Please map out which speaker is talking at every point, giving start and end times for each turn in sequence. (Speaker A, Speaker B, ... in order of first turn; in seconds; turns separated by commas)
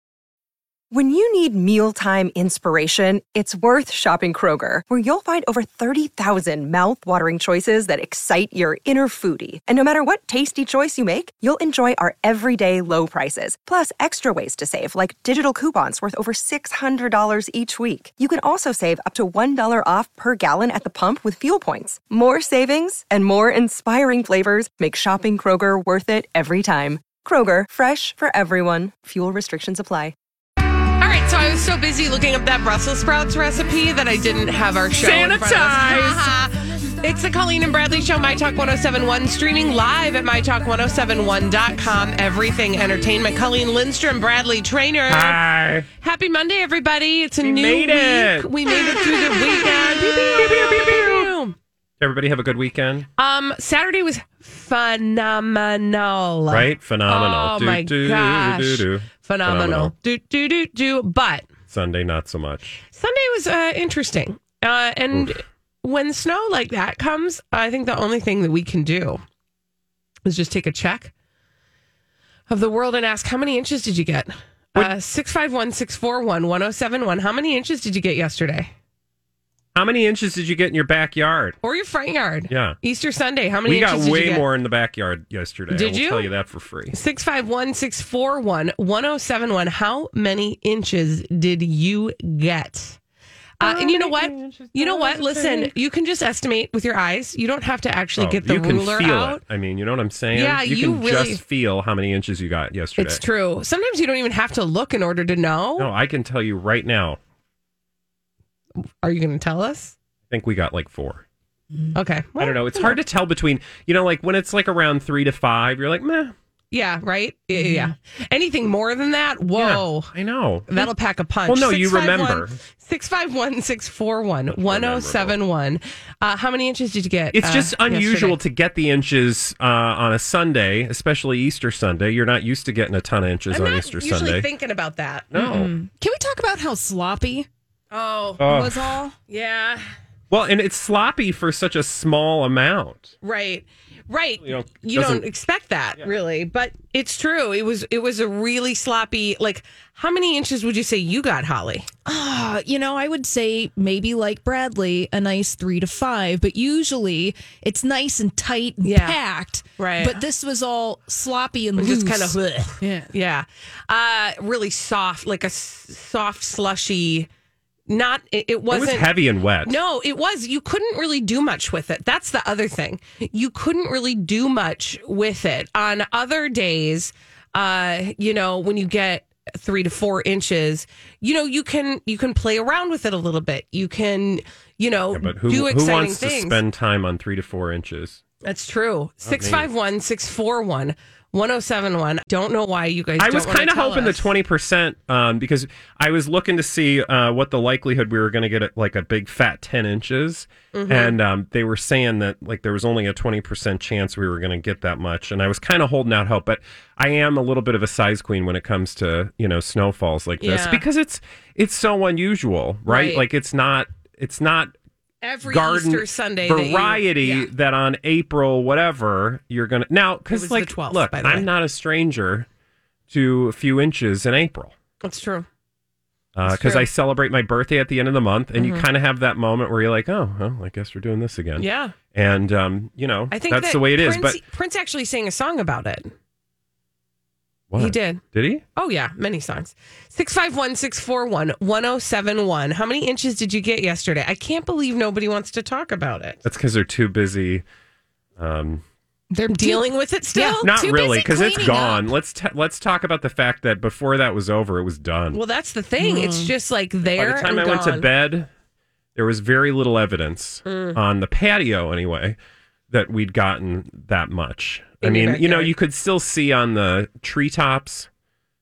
Speaker A: 0.9-30.1, Speaker B: 31.0-45.4, Speaker C: 35.0-36.3, Speaker C: 45.1-45.9, Speaker B: 46.0-51.5, Speaker C: 47.4-48.5, Speaker C: 50.5-51.2, Speaker C: 52.0-53.1, Speaker B: 53.2-61.5, Speaker C: 56.5-59.9, Speaker C: 61.7-62.7, Speaker B: 62.9-69.2, Speaker C: 65.1-65.4, Speaker B: 70.2-71.1, Speaker B: 72.5-78.7, Speaker C: 79.8-81.6, Speaker B: 81.6-84.5, Speaker C: 82.5-82.8, Speaker C: 83.6-86.9, Speaker B: 85.7-86.3, Speaker B: 86.9-93.0, Speaker B: 93.6-99.4, Speaker C: 93.6-95.7, Speaker C: 98.2-103.2, Speaker B: 100.3-101.4, Speaker B: 103.0-105.9, Speaker C: 105.8-107.2, Speaker B: 109.0-110.0, Speaker C: 110.3-111.2, Speaker B: 112.0-113.0, Speaker C: 112.4-116.3, Speaker B: 116.7-120.1, Speaker D: 117.5-117.9, Speaker C: 119.6-120.9, Speaker B: 120.7-128.4, Speaker C: 121.5-122.6, Speaker C: 124.5-125.4, Speaker C: 127.3-134.5, Speaker B: 133.5-135.3, Speaker C: 135.3-135.7, Speaker D: 135.3-137.5, Speaker B: 137.9-138.4, Speaker C: 138.4-139.0, Speaker D: 138.4-139.1, Speaker B: 139.3-139.8, Speaker C: 140.3-143.1, Speaker B: 143.2-151.9, Speaker C: 144.4-145.3, Speaker D: 152.1-163.1, Speaker B: 158.8-159.2, Speaker B: 159.8-160.2, Speaker B: 161.8-167.3, Speaker B: 167.9-186.6, Speaker C: 168.7-169.8, Speaker C: 185.1-188.2, Speaker B: 188.4-194.3, Speaker C: 189.2-189.7, Speaker C: 193.2-214.7, Speaker B: 200.7-201.2, Speaker B: 210.4-210.8, Speaker B: 212.9-213.2, Speaker B: 215.2-217.5, Speaker C: 215.4-222.5, Speaker B: 220.3-221.5, Speaker C: 223.1-224.7, Speaker B: 225.0-225.4, Speaker C: 226.4-234.4, Speaker B: 226.4-226.9, Speaker B: 228.6-228.9, Speaker B: 231.6-231.9, Speaker B: 233.3-236.1, Speaker C: 237.7-238.6, Speaker B: 237.8-238.2, Speaker B: 238.8-246.4, Speaker C: 246.4-247.6, Speaker C: 248.4-248.8, Speaker D: 249.3-252.1, Speaker B: 249.5-250.7, Speaker C: 250.6-255.4, Speaker B: 255.3-258.1, Speaker D: 256.0-256.5, Speaker C: 257.1-258.5, Speaker C: 259.1-262.4, Speaker B: 260.6-261.0, Speaker C: 262.9-268.1, Speaker B: 265.0-265.7